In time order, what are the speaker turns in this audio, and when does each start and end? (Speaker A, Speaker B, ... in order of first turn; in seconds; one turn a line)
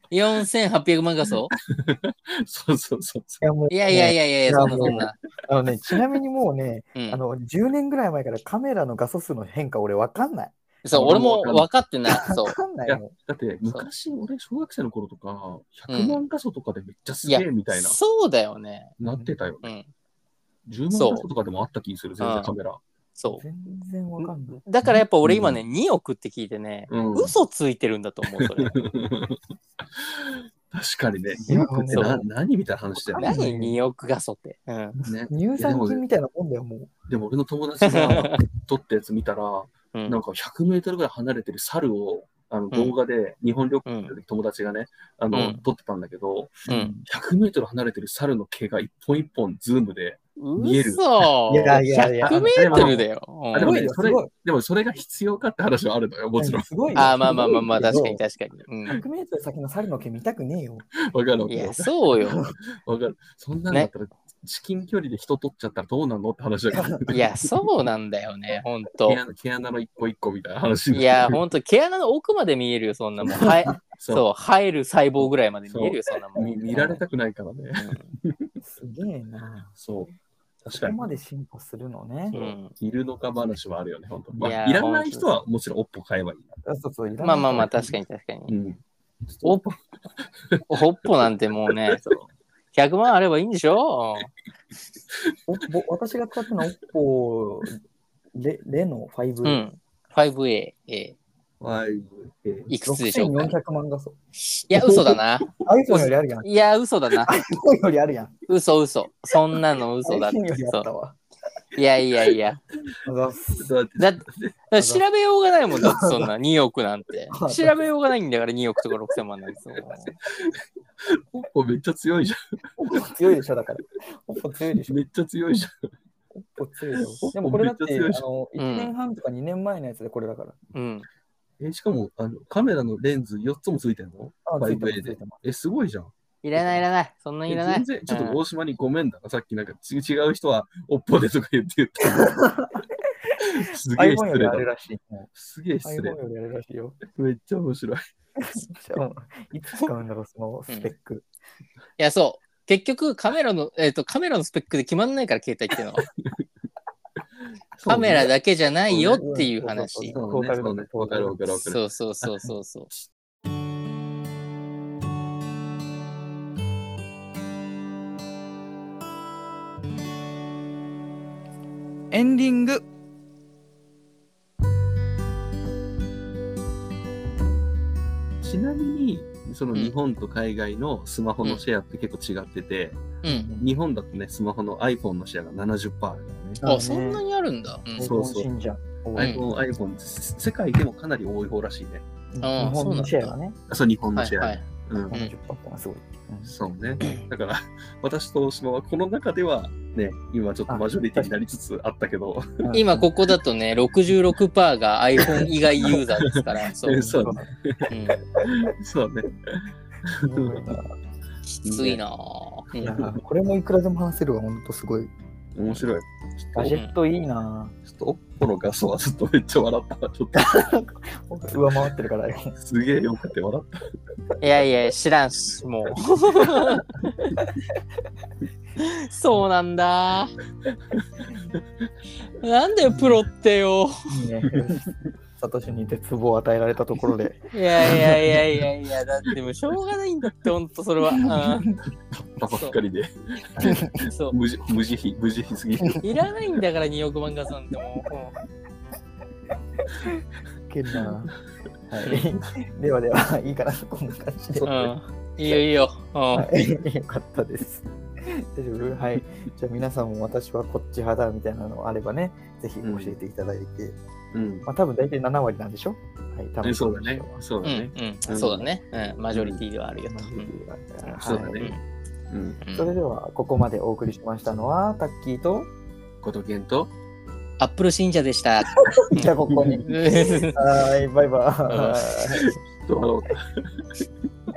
Speaker A: 0.1-1.5
Speaker B: 1.6-3.4
Speaker C: 3.4-10.6
Speaker A: 3.7-5.2
Speaker B: 4.6-5.1
Speaker A: 7.0-7.2
Speaker A: 10.8-12.6
Speaker B: 10.9-11.7
Speaker C: 12.1-13.1
Speaker B: 12.9-18.0
Speaker A: 15.9-16.2
Speaker A: 17.2-18.9
Speaker B: 19.0-19.8
Speaker C: 19.1-19.3
Speaker A: 19.6-19.9
Speaker B: 20.7-22.8
Speaker A: 20.9-21.3
Speaker A: 22.2-22.6
Speaker A: 23.2-23.4
Speaker C: 23.3-24.6
Speaker A: 24.2-28.8
Speaker B: 24.8-25.6
Speaker B: 26.9-27.4
Speaker B: 28.3-29.4
Speaker B: 30.0-33.4
Speaker C: 31.5-32.2
Speaker A: 31.9-32.2
Speaker C: 33.0-33.8
Speaker A: 33.1-35.0
Speaker C: 35.0-36.9
Speaker B: 35.1-36.0
Speaker B: 37.1-51.3
Speaker A: 37.8-38.4
Speaker A: 43.9-44.2
Speaker A: 45.3-45.6
Speaker C: 46.7-47.0
Speaker A: 46.7-46.9
Speaker A: 50.4-53.9
Speaker C: 51.5-53.0
Speaker B: 52.2-56.7
Speaker C: 53.5-54.3
Speaker C: 56.4-58.2
Speaker A: 57.0-59.0
Speaker C: 58.9-60.9
Speaker B: 61.1-62.0
Speaker A: 61.5-62.5
Speaker B: 62.6-67.3
Speaker C: 66.7-67.0
Speaker A: 67.1-69.2
Speaker B: 69.1-71.4
Speaker A: 70.9-77.0
Speaker C: 73.4-73.7
Speaker B: 74.0-74.3
Speaker B: 75.2-78.5
Speaker A: 77.8-78.1
Speaker C: 78.6-79.8
Speaker B: 79.8-81.0
Speaker C: 80.7-82.4
Speaker B: 82.3-86.5
Speaker A: 82.3-82.7
Speaker C: 84.3-84.6
Speaker A: 84.4-85.3
Speaker C: 86.7-87.9
Speaker A: 87.2-88.5
Speaker B: 88.5-91.1
Speaker A: 90.7-94.3
Speaker B: 91.7-92.0
Speaker C: 95.5-97.8
Speaker C: 98.3-99.7
Speaker A: 99.4-101.2
Speaker B: 101.6-102.7
Speaker A: 102.7-103.5
Speaker C: 102.8-104.2
Speaker A: 104.4-107.3
Speaker B: 104.8-105.5
Speaker C: 105.6-106.5
Speaker C: 107.2-108.3
Speaker A: 108.5-110.9
Speaker C: 110.0-111.2
Speaker A: 111.8-112.6
Speaker C: 113.0-113.7
Speaker B: 113.6-114.6
Speaker A: 114.0-120.2
Speaker C: 114.8-115.0
Speaker C: 115.8-116.3
Speaker C: 117.3-117.8
Speaker B: 120.3-123.0
Speaker C: 122.8-125.0
Speaker B: 124.8-125.9
Speaker C: 126.3-130.6
Speaker B: 127.1-128.2
Speaker A: 128.6-128.9
Speaker A: 130.7-131.1
Speaker B: 131.6-136.8
Speaker C: 134.5-135.4
Speaker A: 136.4-138.4
Speaker B: 137.5-142.4
Speaker C: 142.1-145.3
Speaker B: 143.4-144.7
Speaker B: 145.3-146.2
Speaker C: 145.8-147.0
Speaker B: 147.1-148.0
Speaker C: 148.4-151.3
Speaker A: 152.0-156.1
Speaker B: 156.0-156.4
Speaker B: 157.7-158.3
Speaker A: 157.9-160.2
Speaker B: 158.9-159.2
Speaker C: 158.9-161.4
Speaker B: 160.1-161.8
Speaker A: 161.7-162.9
Speaker C: 172.1-172.8
Speaker B: 178.4-186.6
Speaker A: 183.2-183.5
Speaker C: 183.3-183.7
Speaker C: 186.6-187.2
Speaker A: 186.6-188.1
Speaker C: 188.0-189.4
Speaker B: 188.0-188.5
Speaker B: 189.2-192.1
Speaker A: 189.2-189.4
Speaker C: 192.3-193.6
Speaker A: 192.4-193.3
Speaker B: 193.7-195.2
Speaker A: 194.2-195.3
Speaker C: 195.1-196.5
Speaker B: 196.4-202.7
Speaker C: 200.7-201.3
Speaker C: 202.6-203.1
Speaker A: 202.7-207.1
Speaker B: 205.3-207.9
Speaker C: 207.0-207.5
Speaker A: 207.9-208.2
Speaker C: 208.4-208.7
Speaker B: 208.4-210.8
Speaker C: 210.2-210.9
Speaker A: 211.5-213.0
Speaker B: 211.7-212.0
Speaker B: 212.8-213.2
Speaker C: 212.8-215.1
Speaker B: 215.6-216.8
Speaker C: 216.6-217.7
Speaker B: 217.8-220.7
Speaker C: 220.3-222.6
Speaker B: 222.6-223.8
Speaker A: 224.4-226.8
Speaker A: 228.8-230.3
Speaker A: 232.4-234.1
Speaker C: 234.1-234.8
Speaker B: 234.5-234.9
Speaker C: 235.4-237.5
Speaker A: 237.5-241.7
Speaker C: 241.1-241.7
Speaker B: 242.1-246.2
Speaker A: 242.5-242.8
Speaker C: 243.6-244.0
Speaker A: 244.1-244.4
Speaker A: 246.0-248.4
Speaker C: 250.0-251.3
Speaker C: 251.9-254.7
Speaker B: 254.6-254.9
Speaker A: 254.7-256.5
Speaker C: 256.3-264.0
Speaker B: 262.8-263.2
Speaker B: 264.3-264.7
Speaker C: 264.6-267.4
Speaker B: 266.6-268.7
Speaker A: 267.6-270.5
Speaker B: 269.3-269.6
Speaker C: 270.0-271.6
Speaker B: 271.2-271.7
Speaker A: 271.6-271.8
Speaker B: 272.3-272.6
Speaker A: 272.6-272.9
Speaker C: 272.8-275.7
Speaker B: 276.2-276.9
Speaker A: 277.6-280.6
Speaker C: 278.9-282.5
Speaker B: 279.5-279.8
Speaker A: 281.7-282.0
Speaker B: 282.3-283.7